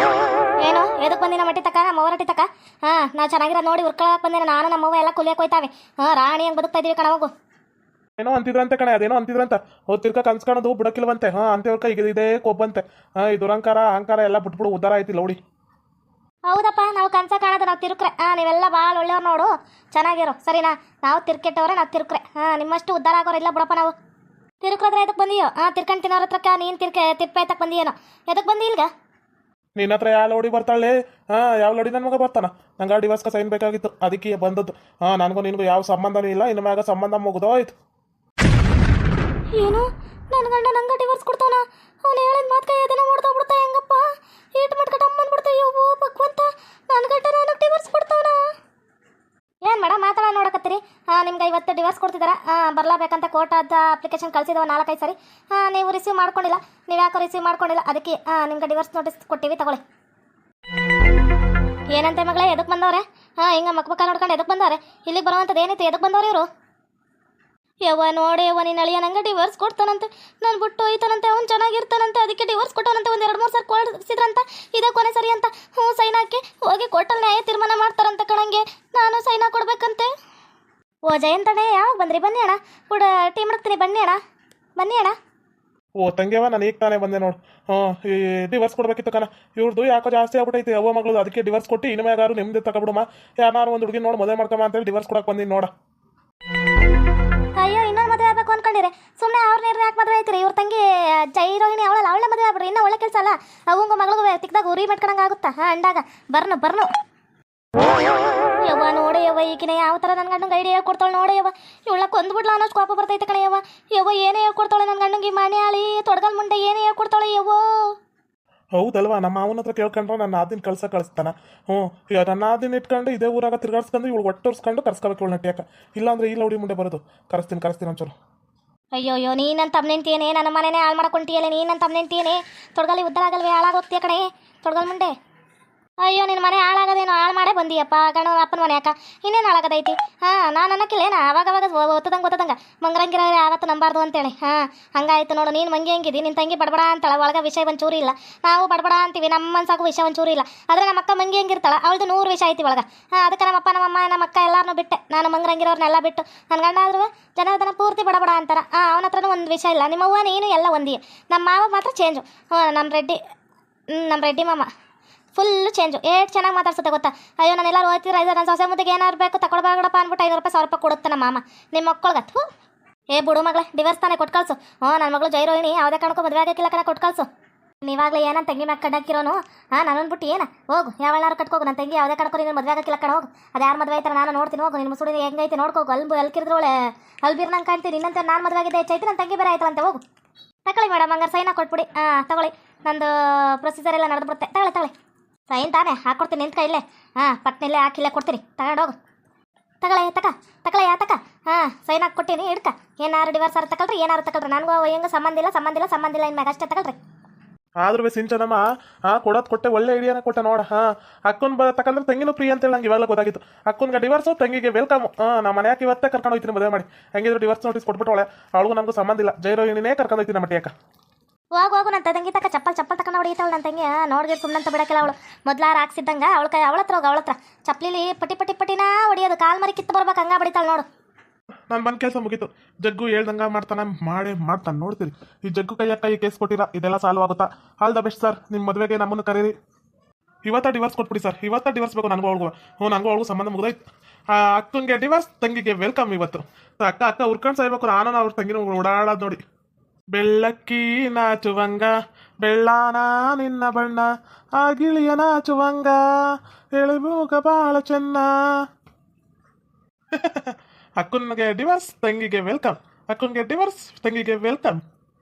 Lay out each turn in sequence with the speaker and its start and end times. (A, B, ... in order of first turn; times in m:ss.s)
0:00.6-0:07.3 A
0:08.2-0:15.4 B
0:16.5-0:23.9 A
0:24.6-0:28.9 A
0:29.8-0:37.7 B
0:39.5-0:48.4 A
0:49.6-0:59.8 A
1:01.9-1:06.5 A
1:07.8-1:20.1 A
1:21.1-1:24.2 A
1:24.8-1:25.2 A
1:26.0-1:35.7 B
1:37.6-1:46.9 A
1:48.6-1:57.9 A
1:58.7-2:08.2 B
2:08.9-2:15.1 A
2:16.0-2:43.2 A
2:43.9-2:44.7 A
2:45.3-2:52.4 A
2:53.1-2:57.3 A
2:57.8-3:10.0 A
3:10.6-3:14.9 A
3:15.5-3:18.9 A
3:19.8-3:27.0 A
3:27.8-3:40.7 B
3:41.5-3:50.8 A
3:51.7-3:59.5 B
4:00.4-4:09.4 B
4:10.1-4:18.4 B
4:20.1-4:24.8 B